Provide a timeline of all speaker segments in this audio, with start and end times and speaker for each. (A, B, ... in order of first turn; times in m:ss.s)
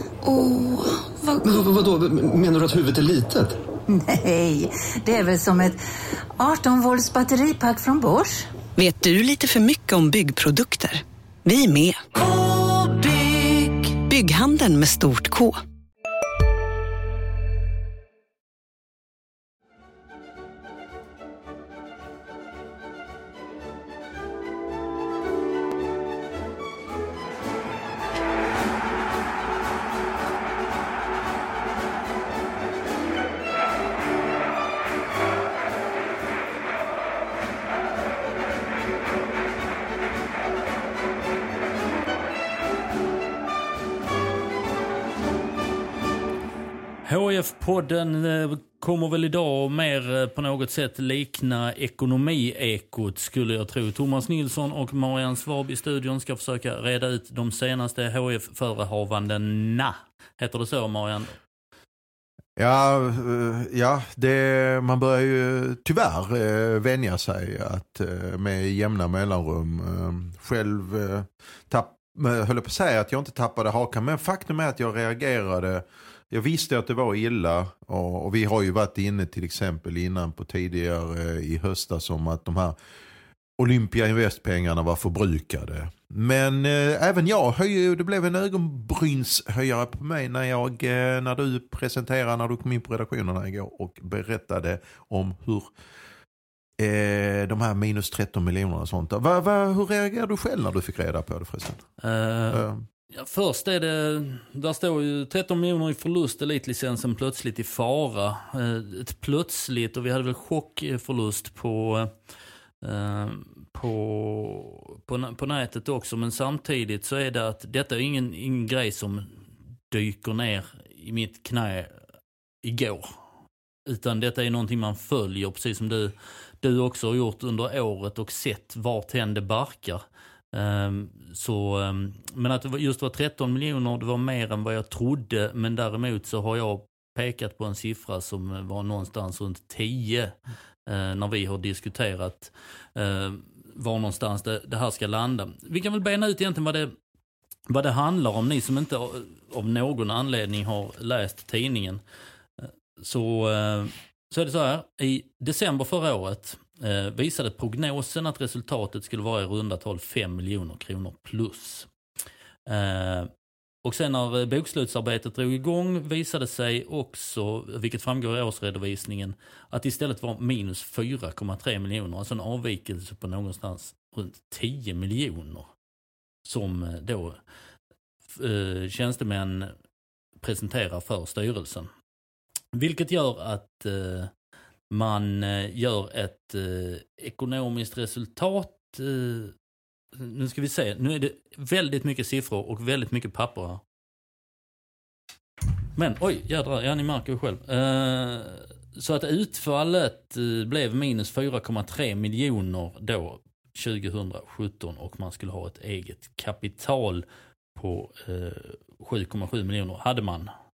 0:01.4-0:03.6 A
0:03.9-0:05.8 B
0:06.4-0:08.5 B
0:08.8-0:12.1 C
0:12.3-0:13.8 B
0:13.8-0:15.6 C
0:47.0-1:01.4 D
1:02.6-1:22.8 E
1:23.6-1:35.7 E
1:36.8-1:41.9 E
1:42.0-1:52.1 D
1:42.5-1:42.8 E
1:52.8-1:59.4 D
1:59.9-2:02.0 D
2:02.6-2:03.1 D
2:03.9-2:10.0 D
2:10.5-2:26.9 D
2:27.7-2:32.0 D
2:32.6-2:41.9 D
2:42.7-2:43.3 D
2:43.8-2:55.7 D
2:56.5-2:57.4 D
2:58.3-2:59.7 D
3:00.4-3:01.9 D
3:02.7-3:04.3 D
3:04.9-3:09.5 D
3:10.1-3:13.8 D
3:16.0-3:27.2 D
3:27.8-3:30.5 D